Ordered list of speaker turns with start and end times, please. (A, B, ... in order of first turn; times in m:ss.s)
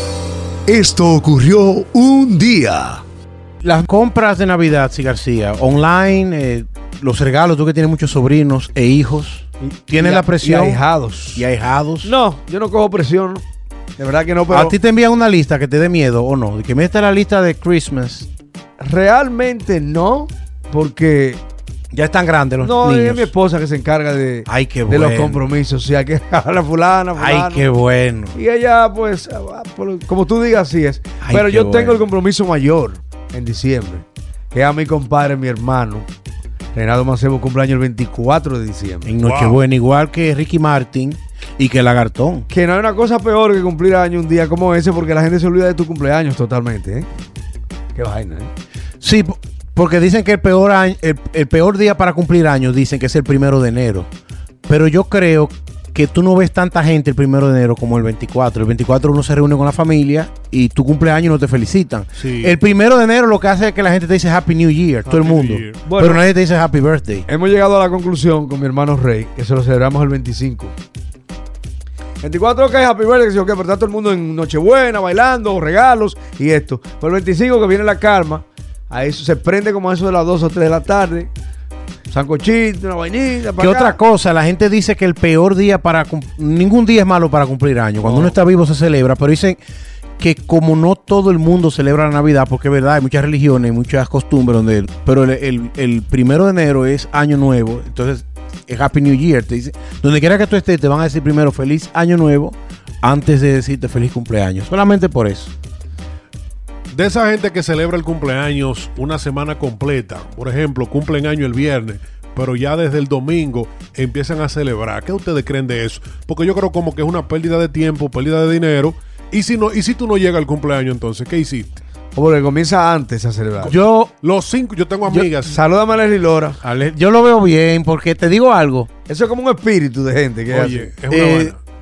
0:00.6-0:03.0 A
0:03.6-0:10.8 B
0:09.7-0:11.5 A
0:11.4-0:12.1 B
0:12.0-0:13.4 A
0:14.0-0:14.8 A
0:14.5-0:18.3 B
0:18.8-0:21.4 A
0:21.9-0:23.3 B
0:22.6-0:27.6 A
0:24.5-0:25.4 B
0:27.2-0:28.4 B
0:28.3-0:36.1 A
0:31.2-0:32.0 B
0:36.7-0:39.1 A
0:39.0-0:42.5 B
0:39.2-0:39.6 C
0:42.5-0:47.1 A
0:47.9-0:48.5 A
0:49.0-0:54.1 B
0:54.6-1:07.2 B
1:02.2-1:02.6 C
1:05.1-1:05.8 C
1:05.8-1:06.2 A
1:07.3-1:10.7 A
1:12.2-1:21.3 A
1:22.1-1:24.0 A
1:23.6-1:29.6 B
1:28.0-1:28.4 A
1:30.2-1:45.5 B
1:46.9-2:01.8 C
2:02.1-2:03.7 A
2:03.6-2:05.6 C
2:03.7-2:04.1 B
2:05.4-2:06.6 A
2:06.6-2:08.9 B
2:09.1-2:10.9 A
2:10.5-2:11.6 C
2:11.1-2:11.5 B